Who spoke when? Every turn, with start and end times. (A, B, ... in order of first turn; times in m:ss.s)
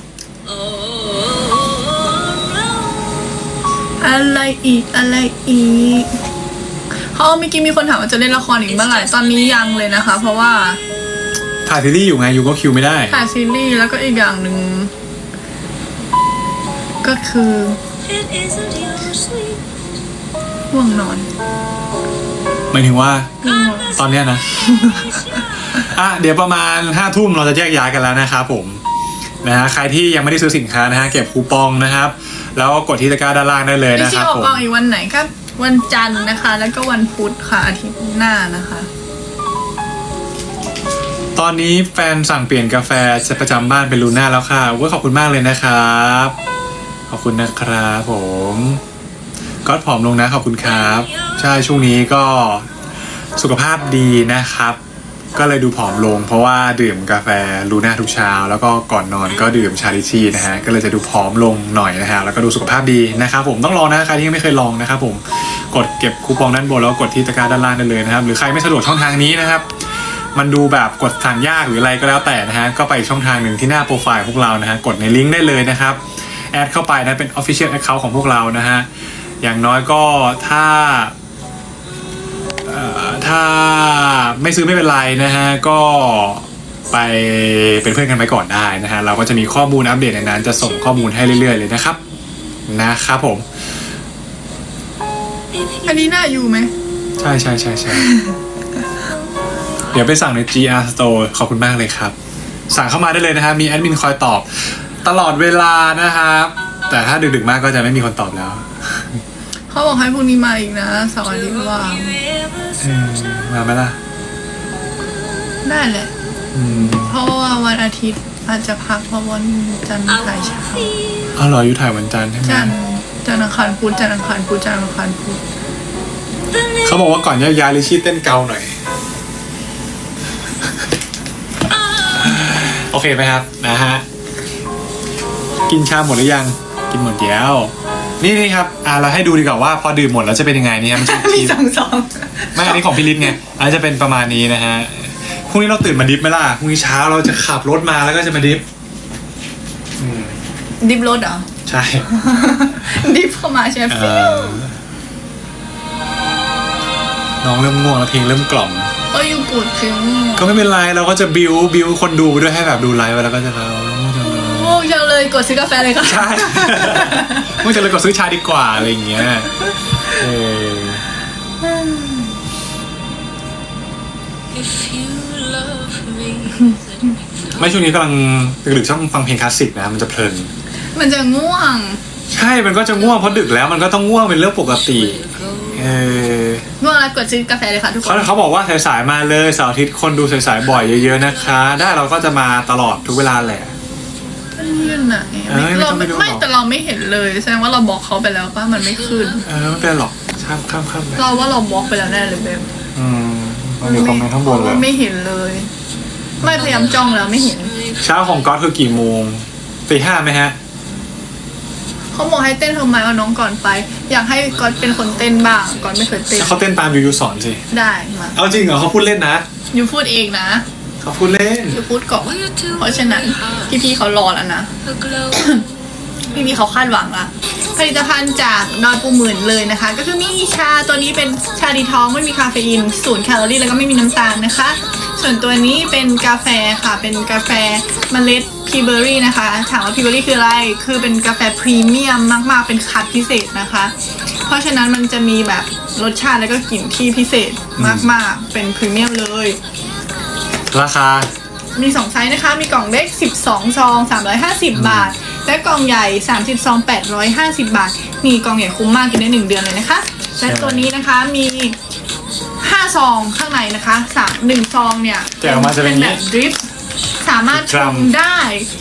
0:00.5-0:02.9 A
0:04.0-0:06.1 B
0:07.1-0:10.8 B
0:08.9-0:09.3 A
0:11.6-0:13.2 C
0:13.1-0:14.9 B
0:17.0-0:17.8 B
0:18.0-0:19.8 A
0:20.7-0:21.3 B
0:22.7-0:24.4 C
0:23.4-0:25.4 B
0:24.8-0:25.7 A
0:25.7-0:28.8 C
0:29.4-0:34.6 C
0:33.9-0:38.9 B
0:41.4-0:46.3 C
0:47.1-0:48.8 C
0:49.6-0:52.7 C
0:53.4-0:54.8 C
0:55.3-1:09.8 C
1:10.3-1:18.9 C
1:19.4-1:21.1 C
1:22.6-1:32.0 C
1:32.7-1:33.4 C
1:35.8-1:36.7 B
1:37.2-1:38.1 C
1:37.9-1:38.4 B
1:39.9-1:42.1 C
1:42.7-1:49.2 C
1:49.7-1:52.2 B
1:51.9-1:52.8 A
1:52.8-1:54.0 C
1:55.6-1:56.1 B
1:56.5-1:57.2 C
1:56.7-2:01.0 B
2:00.5-2:01.3 A
2:01.3-2:02.7 C
2:02.4-2:05.4 B
2:06.6-2:06.8 A
2:06.8-2:08.7 C
2:12.2-2:14.0 C
2:15.7-2:21.6 C
2:20.9-2:23.3 B
2:22.5-2:28.6 C
2:30.0-2:30.4 C
2:30.8-2:31.5 B
2:31.6-2:32.2 C
2:32.1-2:34.6 B
2:33.9-2:34.8 C
2:37.4-2:38.9 C
2:39.1-2:40.5 B
2:40.4-2:44.8 C
2:44.3-2:47.7 B
2:46.0-2:49.5 C
2:50.1-2:51.0 C
2:51.6-2:52.3 B
2:54.5-2:57.8 A
2:57.6-3:00.5 C
3:01.0-3:02.0 B
3:02.3-3:06.6 C
3:05.1-3:05.8 A
3:06.8-3:08.3 B
3:08.0-3:13.7 C
3:14.6-3:19.4 B
3:15.5-3:16.4 C
3:19.4-3:21.2 C
3:21.2-3:22.7 B
3:22.9-3:24.8 C
3:23.8-3:25.7 B
3:26.4-3:27.7 B
3:26.4-3:26.9 C
3:28.0-3:30.6 C
3:32.1-3:36.6 B
3:36.4-3:37.6 C
3:37.7-3:38.4 B
3:38.4-3:39.4 C
3:39.7-3:40.6 B
3:41.0-3:41.8 C
3:41.7-3:44.7 B
3:42.4-3:43.6 A
3:44.8-3:46.2 A
3:45.3-3:45.6 B
3:46.3-4:03.9 B
4:04.4-4:09.6 B
4:07.8-4:08.1 C
4:10.7-4:11.3 C
4:11.8-4:21.8 B
4:14.7-4:15.2 C
4:20.4-4:20.9 C
4:22.6-4:26.6 B
4:25.4-4:26.2 C
4:27.2-4:28.7 B
4:27.5-4:28.1 C